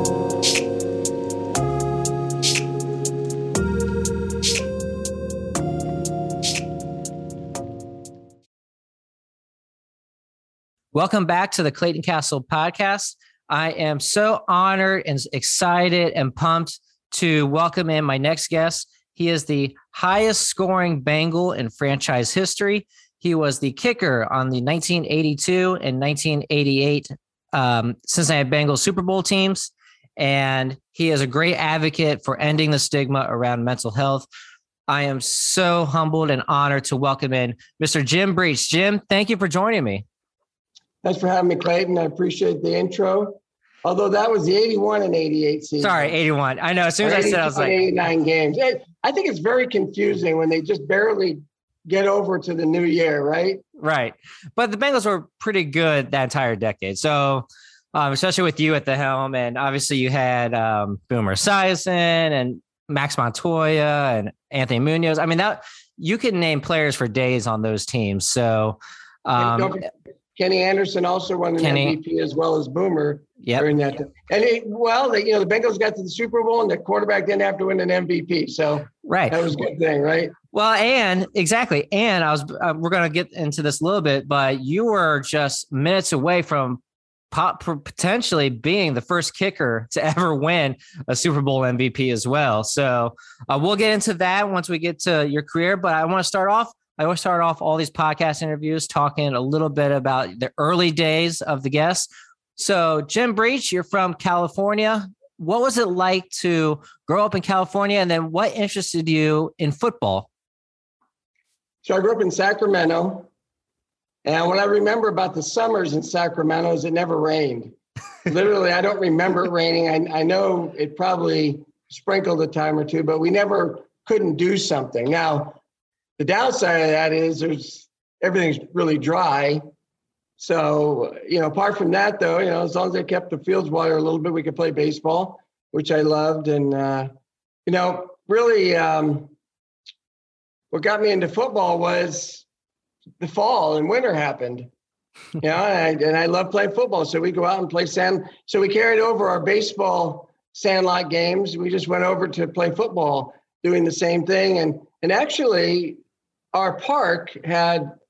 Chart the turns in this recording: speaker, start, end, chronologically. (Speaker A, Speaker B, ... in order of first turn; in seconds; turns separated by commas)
Speaker A: 10.9-34.3, Speaker A: 34.9-40.0, Speaker B: 41.0-46.2, Speaker A: 45.8-47.8, Speaker B: 47.0-53.6, Speaker A: 53.8-69.8, Speaker B: 69.4-80.3, Speaker A: 71.6-72.0, Speaker A: 73.4-73.7, Speaker A: 79.0-79.4, Speaker A: 80.5-110.3, Speaker B: 111.8-113.3, Speaker B: 114.2-117.8, Speaker B: 118.2-125.6, Speaker B: 126.2-129.6, Speaker B: 130.4-137.1, Speaker B: 137.7-139.3, Speaker B: 140.7-142.4, Speaker B: 143.2-144.7, Speaker B: 145.4-156.0, Speaker B: 156.5-157.9